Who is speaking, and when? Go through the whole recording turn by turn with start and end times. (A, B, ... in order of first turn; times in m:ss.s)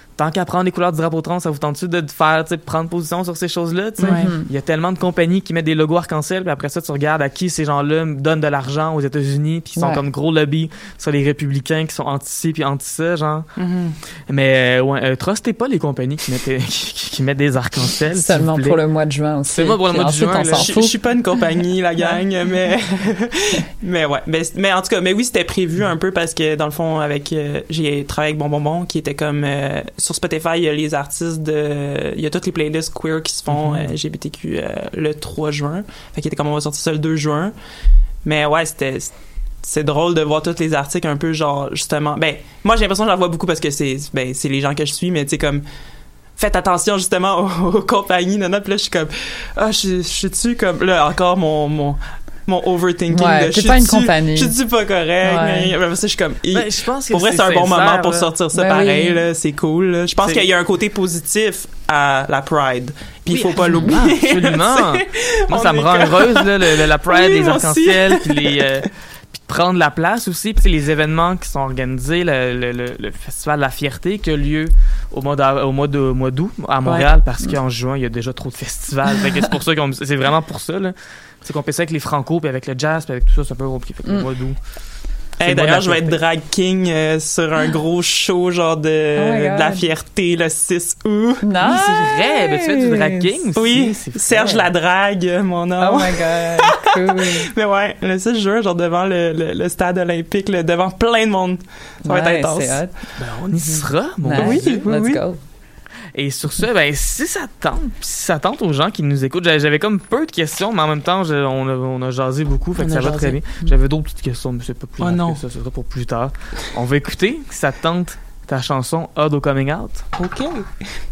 0:00.2-0:13.5 A
0:04.0-0:04.3 B
0:04.0-0:04.5 C
0:09.8-0:10.0 C
0:13.6-0:14.0 B
0:14.3-0:18.8 A
0:18.2-0:20.9 C
0:19.5-0:20.7 A
0:20.5-0:37.5 B
0:33.5-0:33.8 A
0:38.2-0:45.6 B
0:46.4-1:08.7 B
0:53.1-0:54.5 C
0:55.2-0:55.7 C
0:56.5-0:58.3 A
0:58.5-0:59.2 C
1:03.3-1:24.6 A
1:16.8-1:17.1 B
1:25.4-1:26.2 A
1:25.4-1:31.4 B
1:29.2-1:29.8 C
1:31.4-1:33.3 C
1:31.6-1:34.7 A
1:33.5-1:42.8 B
1:35.8-1:37.5 C
1:42.0-1:42.9 C
1:43.2-1:44.8 A
1:43.5-1:45.4 C
1:44.3-1:45.2 B
1:46.1-2:00.0 A
1:52.8-1:53.4 B
1:55.0-1:55.4 B
2:00.2-2:00.7 B